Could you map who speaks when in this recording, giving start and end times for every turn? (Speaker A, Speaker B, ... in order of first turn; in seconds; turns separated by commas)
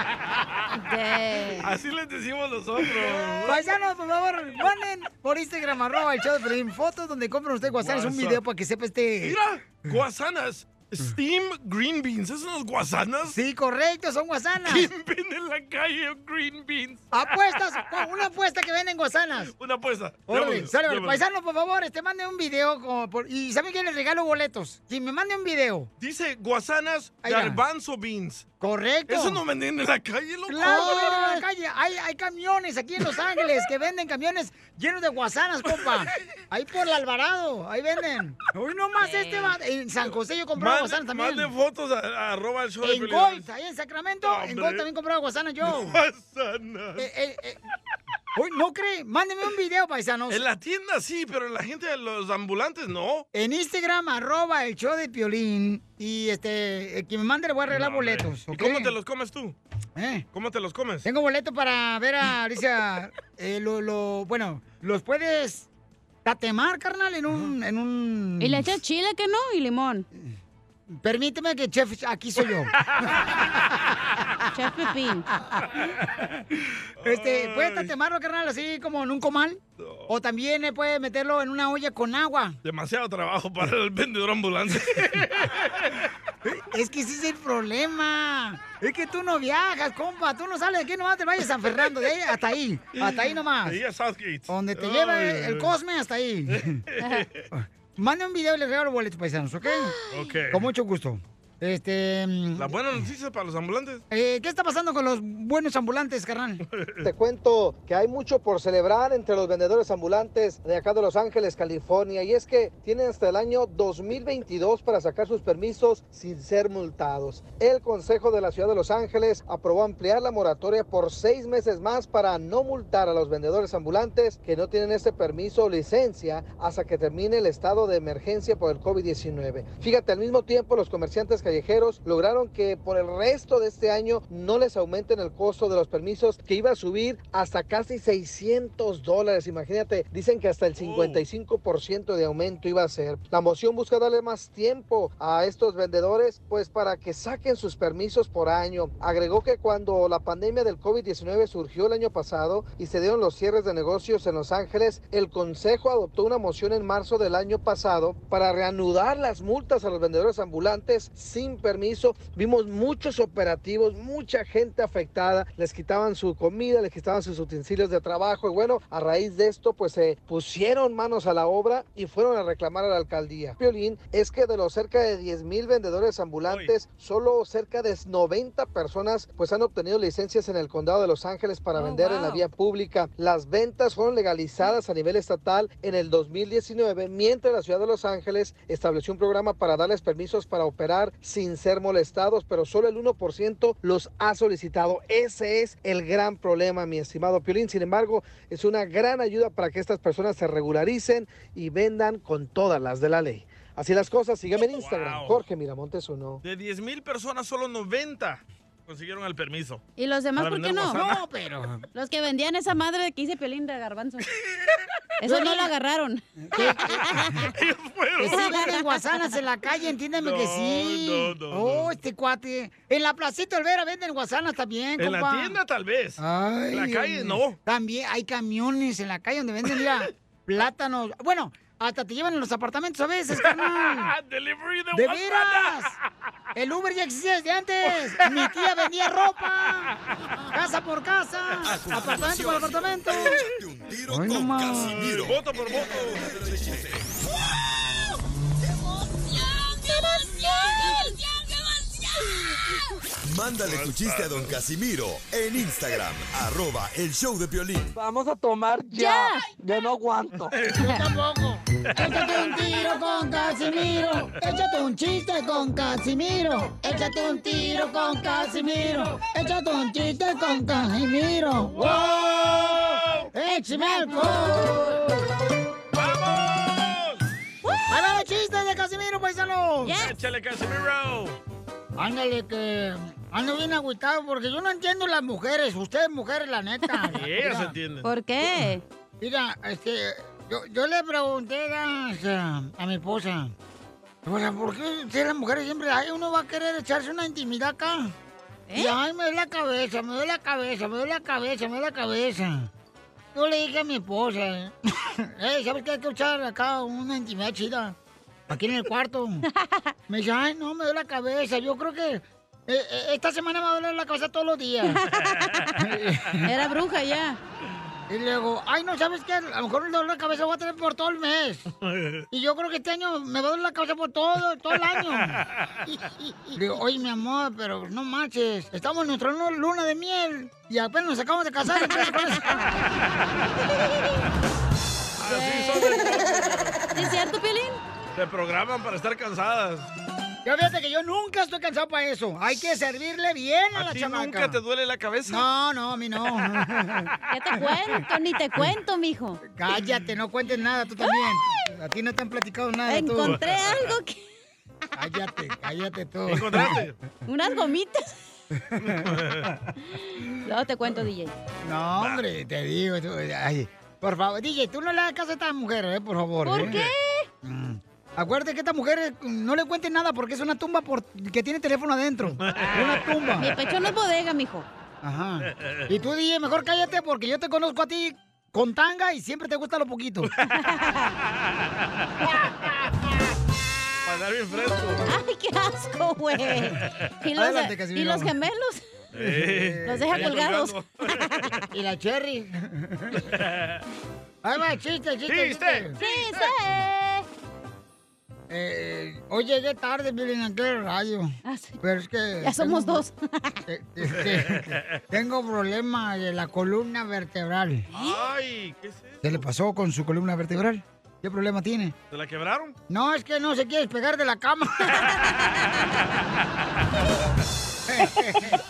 Speaker A: 0.8-1.7, Speaker B: 1.6-3.6, Speaker C: 3.1-9.4, Speaker B: 7.8-8.4, Speaker B: 9.2-13.4, Speaker C: 13.3-14.9, Speaker B: 14.7-18.0, Speaker C: 17.1-19.5, Speaker B: 19.5-21.2, Speaker C: 20.3-25.9, Speaker B: 26.0-28.5, Speaker C: 27.2-27.6, Speaker C: 28.6-29.4, Speaker B: 29.1-31.3, Speaker C: 30.5-41.5, Speaker A: 30.6-31.4, Speaker A: 39.0-39.5, Speaker B: 40.5-43.5, Speaker C: 42.8-46.0, Speaker B: 44.2-44.9, Speaker B: 45.6-47.1, Speaker C: 47.0-47.6, Speaker C: 48.3-50.4, Speaker B: 50.3-53.2, Speaker C: 53.3-58.9, Speaker B: 57.7-59.5, Speaker C: 60.0-60.2, Speaker B: 60.3-61.1, Speaker C: 61.0-65.7, Speaker C: 66.2-68.6, Speaker A: 68.4-70.0, Speaker C: 71.0-73.3, Speaker A: 74.5-75.3, Speaker B: 77.0-77.9, Speaker C: 77.0-82.6, Speaker B: 79.8-80.1, Speaker B: 82.6-86.1, Speaker C: 86.4-93.8, Speaker B: 93.0-95.8, Speaker C: 94.5-96.8, Speaker B: 96.5-97.5, Speaker A: 97.0-97.2, Speaker C: 97.5-100.0, Speaker A: 99.6-100.1, Speaker B: 100.1-100.7, Speaker C: 100.5-102.8, Speaker B: 102.5-104.0, Speaker C: 104.1-106.6, Speaker B: 106.7-107.0, Speaker D: 107.0-206.4, Speaker B: 140.8-141.2, Speaker B: 176.4-176.7, Speaker A: 181.7-182.4, Speaker B: 204.7-205.4, Speaker B: 206.4-209.8, Speaker A: 210.0-211.0, Speaker B: 210.4-211.2, Speaker C: 210.9-211.8, Speaker A: 211.9-214.3, Speaker A: 215.2-217.5, Speaker C: 215.2-215.7, Speaker C: 216.4-217.5, Speaker B: 217.5-218.6, Speaker C: 218.2-225.6, Speaker A: 218.2-219.1, Speaker B: 220.2-221.9, Speaker B: 225.0-227.6, Speaker C: 226.2-234.1, Speaker B: 233.3-235.8, Speaker C: 234.9-235.9, Speaker C: 236.5-239.9, Speaker B: 237.8-238.8, Speaker C: 240.5-243.5, Speaker E: 241.7-247.1, Speaker B: 243.1-243.4, Speaker C: 244.1-245.2, Speaker B: 244.8-247.0, Speaker E: 253.2-257.9, Speaker B: 253.6-254.5, Speaker F: 257.9-260.5, Speaker A: 258.9-259.4, Speaker B: 260.5-260.8, Speaker C: 260.8-275.3, Speaker B: 262.1-262.4, Speaker A: 268.2-268.5, Speaker B: 271.8-273.3, Speaker A: 273.4-275.0, Speaker B: 275.9-277.2, Speaker A: 277.6-278.2, Speaker C: 277.9-280.0, Speaker A: 279.8-280.1, Speaker B: 280.0-281.4, Speaker C: 281.9-287.7, Speaker A: 286.9-287.1, Speaker B: 287.1-288.1, Speaker A: 288.0-288.8, Speaker C: 289.2-293.5, Speaker C: 294.2-298.1, Speaker A: 298.7-298.9, Speaker C: 298.7-302.7, Speaker C: 303.3-307.9, Speaker C: 308.5-309.4, Speaker A: 309.5-309.9, Speaker C: 310.1-315.0, Speaker A: 314.8-315.9, Speaker C: 315.8-316.5, Speaker A: 316.4-317.4, Speaker C: 318.1-321.6, Speaker B: 321.9-322.2, Speaker C: 322.3-325.4, Speaker C: 326.5-332.7, Speaker B: 335.2-336.9, Speaker A: 335.2-337.8, Speaker B: 338.1-339.9, Speaker C: 340.4-344.6, Speaker B: 343.7-345.5, Speaker C: 345.3-347.1, Speaker B: 346.4-346.9, Speaker A: 347.3-349.4, Speaker C: 349.5-353.4, Speaker A: 352.9-354.2, Speaker B: 353.3-353.9, Speaker C: 354.9-356.8, Speaker B: 356.3-357.0, Speaker A: 357.2-358.2, Speaker C: 358.6-359.6, Speaker B: 358.8-359.5, Speaker A: 359.8-361.3, Speaker C: 361.6-366.8, Speaker B: 362.0-362.2, Speaker A: 366.4-367.3, Speaker B: 366.5-366.9, Speaker C: 367.4-373.5, Speaker B: 372.4-373.3, Speaker A: 373.4-374.7, Speaker C: 375.0-380.3, Speaker B: 375.5-375.9, Speaker A: 380.4-381.1, Speaker B: 381.3-382.2, Speaker B: 384.0-385.0, Speaker A: 385.0-388.8, Speaker B: 386.8-387.1, Speaker C: 387.3-388.3, Speaker B: 389.1-391.6, Speaker C: 389.1-390.4, Speaker A: 389.8-391.6, Speaker C: 391.7-393.3, Speaker B: 393.2-393.8, Speaker C: 394.4-395.9, Speaker B: 395.3-396.5, Speaker A: 396.0-397.2, Speaker C: 398.5-403.0, Speaker A: 401.4-401.8, Speaker A: 402.4-403.6, Speaker C: 403.7-407.9, Speaker B: 404.0-405.0, Speaker A: 407.9-408.2, Speaker B: 407.9-409.4, Speaker C: 409.2-411.9, Speaker B: 412.1-412.8, Speaker C: 412.9-415.2, Speaker C: 417.9-418.6